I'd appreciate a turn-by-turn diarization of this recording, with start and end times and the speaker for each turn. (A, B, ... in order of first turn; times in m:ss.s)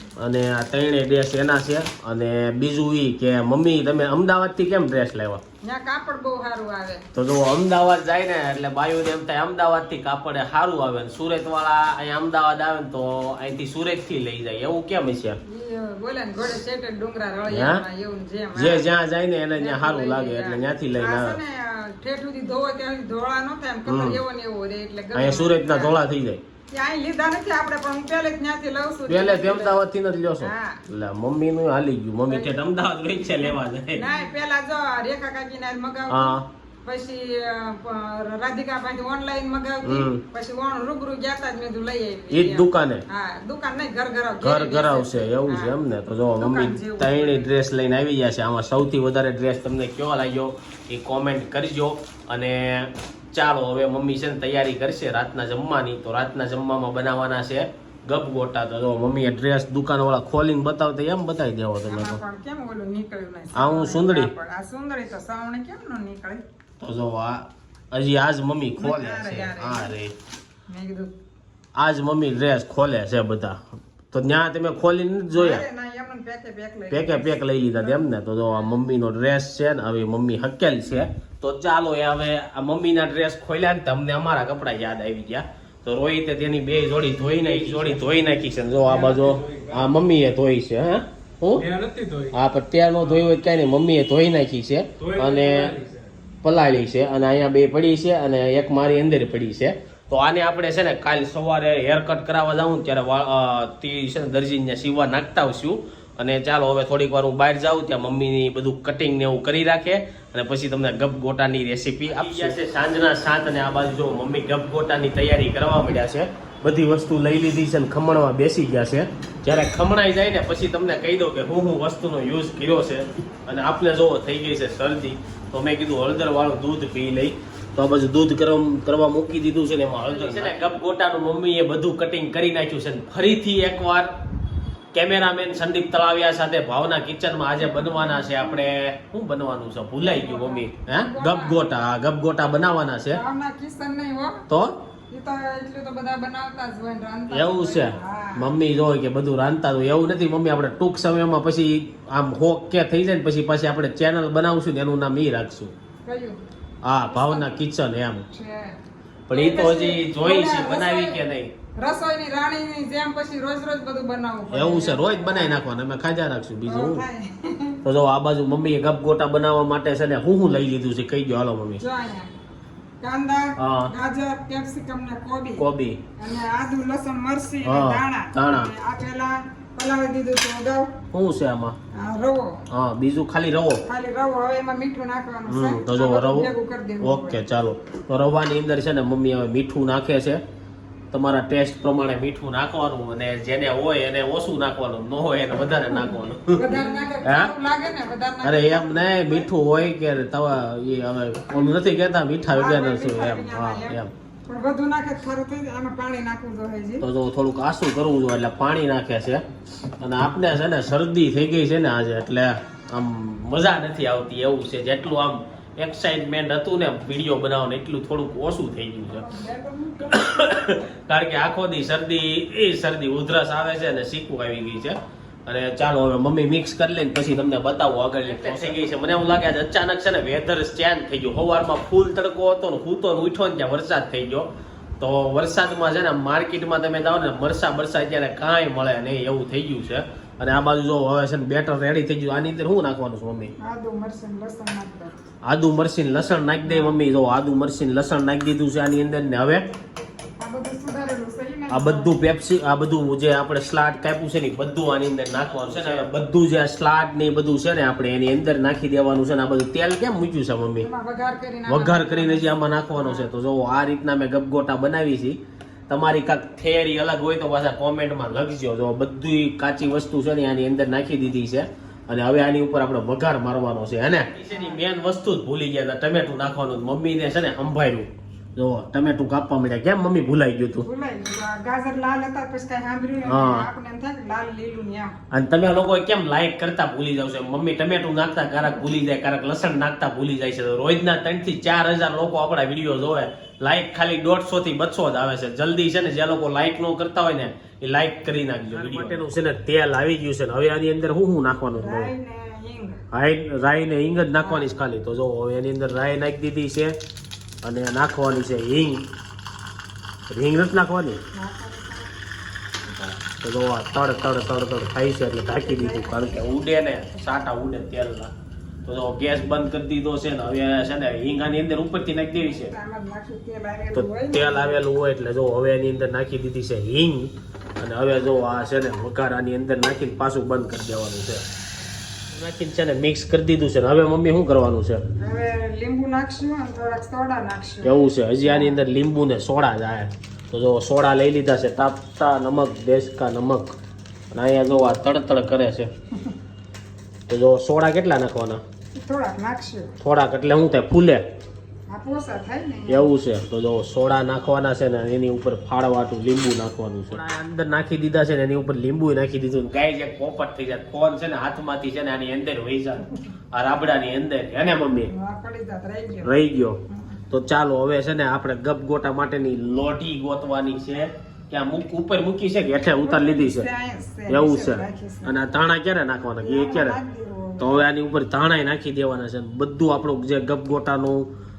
0:00.2-0:05.4 A
0:05.6-0:07.1 B
0:07.2-0:15.4 A
0:15.5-0:18.9 B
0:17.5-0:17.8 A
0:18.6-0:21.4 A
0:19.6-0:26.0 B
0:23.9-0:24.2 A
0:25.1-0:26.4 A
0:26.7-0:29.8 B
0:29.1-0:34.1 A
0:30.4-0:30.8 B
0:32.3-0:32.6 B
0:33.3-0:45.8 B
0:36.1-0:36.4 A
0:39.8-0:40.2 A
0:42.3-0:43.0 A
0:44.4-1:02.2 A
0:46.4-0:47.5 B
1:01.9-1:06.4 B
1:03.5-1:04.3 A
1:06.8-1:10.1 A
1:08.8-1:10.0 B
1:10.7-1:11.1 B
1:11.8-1:15.6 A
1:15.3-1:18.8 B
1:16.9-1:31.7 A
1:27.3-1:28.3 C
1:28.8-1:30.0 C
1:31.6-1:32.4 C
1:32.3-1:35.7 A
1:35.0-1:36.1 C
1:36.4-2:14.1 A
2:14.9-2:23.2 A
2:17.6-2:18.7 B
2:20.0-2:21.6 B
2:23.1-2:24.4 B
2:24.5-2:24.8 A
2:25.1-2:28.6 B
2:27.3-2:35.7 A
2:36.0-2:36.4 B
2:36.8-2:38.3 A
2:37.1-2:37.6 B
2:38.3-2:38.8 B
2:39.3-2:41.5 A
2:39.3-2:41.2 B
2:41.8-2:45.7 B
2:44.5-2:47.0 A
2:46.7-2:47.8 B
2:47.8-2:51.8 A
2:51.8-2:52.3 B
2:53.0-2:55.7 B
2:53.6-2:53.9 A
2:55.6-2:56.0 A
2:56.2-3:01.0 B
2:57.6-2:58.7 A
3:01.1-3:01.8 A
3:01.9-3:02.6 B
3:02.7-3:03.8 A
3:03.9-3:07.4 B
3:05.5-3:06.5 A
3:07.0-3:10.4 A
3:11.1-3:17.5 A
3:15.7-3:19.5 B
3:18.4-3:24.1 A
3:22.5-3:27.1 B
3:27.0-3:29.4 A
3:30.0-3:39.3 A
3:39.1-3:40.3 B
3:40.1-3:54.5 A
3:48.3-3:48.6 B
3:55.0-4:03.5 A
4:03.6-4:05.2 B
4:05.4-4:09.7 A
4:06.7-4:07.0 B
4:10.4-4:12.2 B
4:11.7-4:20.9 A
4:20.8-4:23.3 B
4:21.7-4:40.9 A
4:34.5-4:34.8 B
4:40.8-4:45.2 B
4:43.3-4:43.7 A
4:45.3-5:02.1 A
5:01.8-5:03.0 B
5:03.1-5:07.0 A
5:04.4-5:04.7 B
5:07.6-5:09.1 A
5:10.3-5:11.2 A
5:11.3-5:12.1 B
5:12.8-5:13.2 B
5:13.4-5:18.3 A
5:15.5-5:16.5 B
5:18.9-5:22.7 A
5:22.4-5:24.8 B
5:23.9-5:31.4 A
5:32.3-5:35.0 A
5:35.2-5:38.8 B
5:37.8-5:43.8 A
5:44.3-5:45.9 A
5:47.3-5:48.6 A
5:48.9-5:50.0 B
5:50.0-5:51.2 A
5:51.9-5:53.1 B
5:52.9-6:05.1 A
6:05.1-6:06.3 B
6:06.2-6:06.8 A
6:06.9-6:07.2 B
6:07.3-6:13.7 A
6:13.0-6:15.4 B
6:14.3-6:17.0 A
6:16.4-6:17.9 B
6:17.6-6:21.3 A